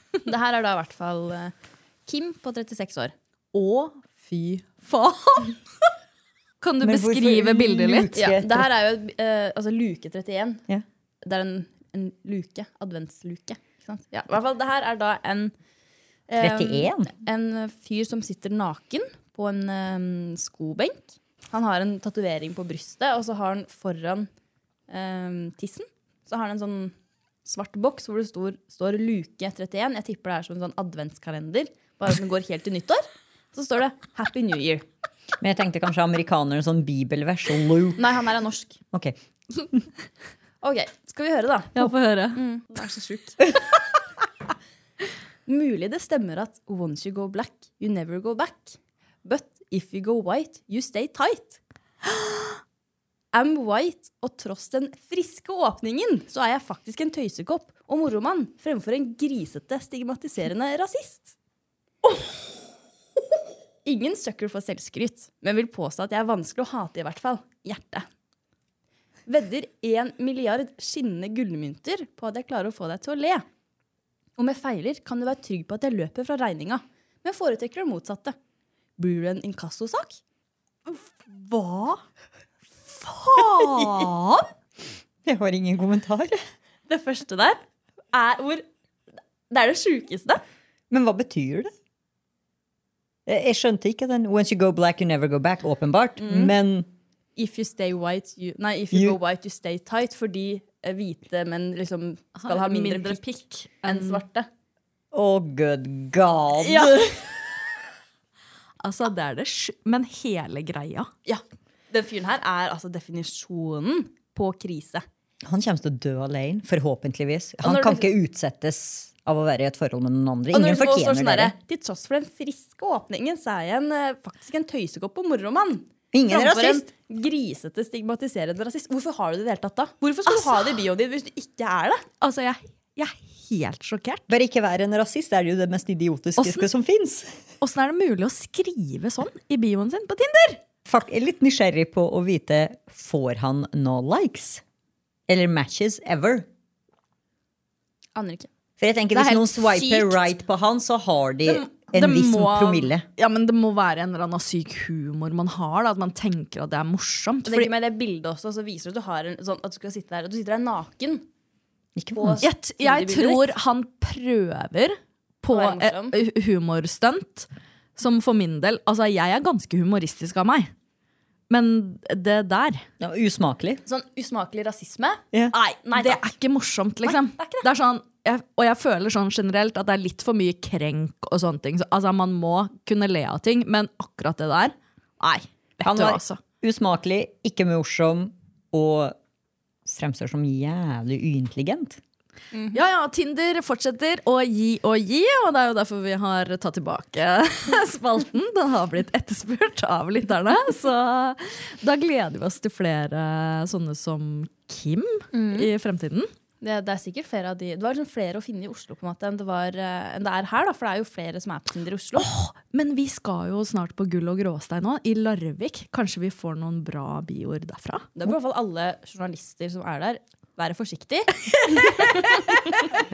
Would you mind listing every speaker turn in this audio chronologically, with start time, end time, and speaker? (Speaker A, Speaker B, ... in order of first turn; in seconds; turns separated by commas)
Speaker A: 0.2-1.5, Speaker A: 2.1-3.1, Speaker B: 3.5-5.5, Speaker B: 6.6-8.1, Speaker C: 6.8-8.7, Speaker A: 8.1-10.6, Speaker A: 11.2-15.5, Speaker A: 16.3-24.3, Speaker C: 16.4-17.1, Speaker A: 24.9-26.9, Speaker A: 27.4-34.8, Speaker C: 35.4-38.1, Speaker A: 38.0-38.8, Speaker A: 40.6-43.5, Speaker B: 41.7-42.4, Speaker A: 45.5-51.6, Speaker A: 53.3-61.3, Speaker A: 63.8-68.0, Speaker A: 69.3-73.4, Speaker A: 74.4-78.3, Speaker A: 79.0-80.2, Speaker B: 80.9-82.0, Speaker B: 82.9-84.5, Speaker C: 83.6-84.0, Speaker C: 85.2-86.4, Speaker A: 86.9-87.6, Speaker A: 88.1-88.6, Speaker A: 89.5-90.4, Speaker C: 90.9-91.7, Speaker C: 93.2-96.9, Speaker A: 96.2-96.5, Speaker A: 97.4-104.5, Speaker B: 102.3-104.2, Speaker C: 105.1-107.2, Speaker A: 106.6-107.1, Speaker B: 108.8-111.1, Speaker A: 111.2-115.0, Speaker C: 115.4-121.5, Speaker A: 117.6-118.1, Speaker A: 120.5-132.1, Speaker C: 126.1-126.8, Speaker B: 130.3-130.8, Speaker B: 132.2-134.3, Speaker C: 134.3-137.3, Speaker B: 136.4-136.7, Speaker B: 137.6-140.6, Speaker C: 140.8-144.6, Speaker C: 145.3-146.5, Speaker A: 148.1-148.5, Speaker C: 148.8-153.0, Speaker B: 149.1-150.1, Speaker B: 151.5-157.7, Speaker A: 157.5-161.2, Speaker C: 161.9-162.4, Speaker A: 162.1-163.5, Speaker B: 162.4-170.7, Speaker A: 165.5-166.1, Speaker B: 171.5-172.8, Speaker C: 173.0-173.8, Speaker A: 173.8-176.2, Speaker B: 175.5-186.4, Speaker A: 177.0-177.7, Speaker C: 185.8-189.2, Speaker C: 189.8-192.0, Speaker A: 192.5-192.8, Speaker B: 192.7-206.3, Speaker A: 205.3-205.7, Speaker A: 206.6-212.3, Speaker B: 212.2-218.1, Speaker A: 218.2-222.8, Speaker B: 221.8-222.1